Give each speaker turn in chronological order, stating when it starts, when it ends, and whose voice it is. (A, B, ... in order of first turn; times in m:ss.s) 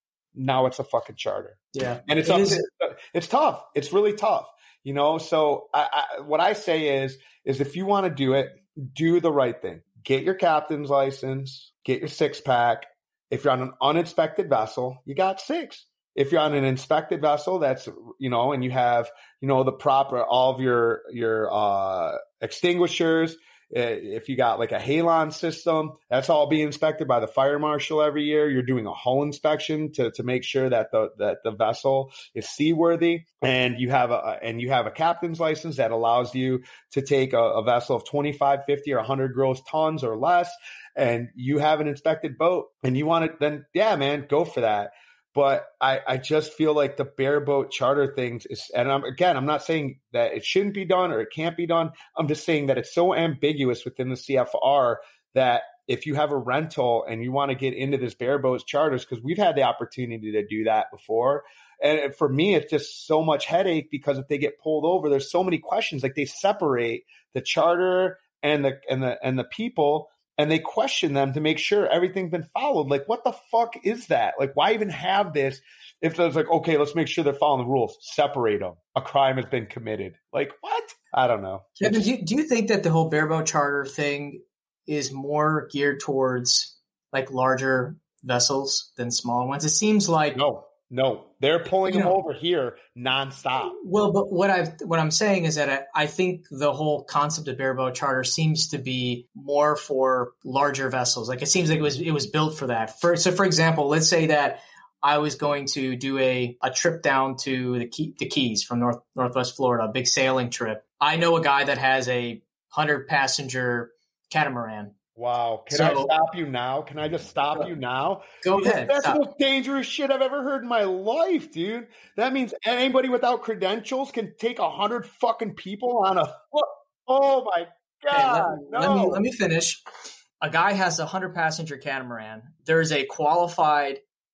0:00.3-1:22.1 A
0:01.7-0:02.6 B
1:21.8-1:30.4 B
1:30.3-1:33.8 A
1:31.9-1:32.2 B
1:33.6-1:54.9 B
1:55.2-2:09.2 A
1:55.7-1:56.1 B
1:58.4-1:59.2 B
2:08.1-2:09.8 B
2:10.4-2:14.0 B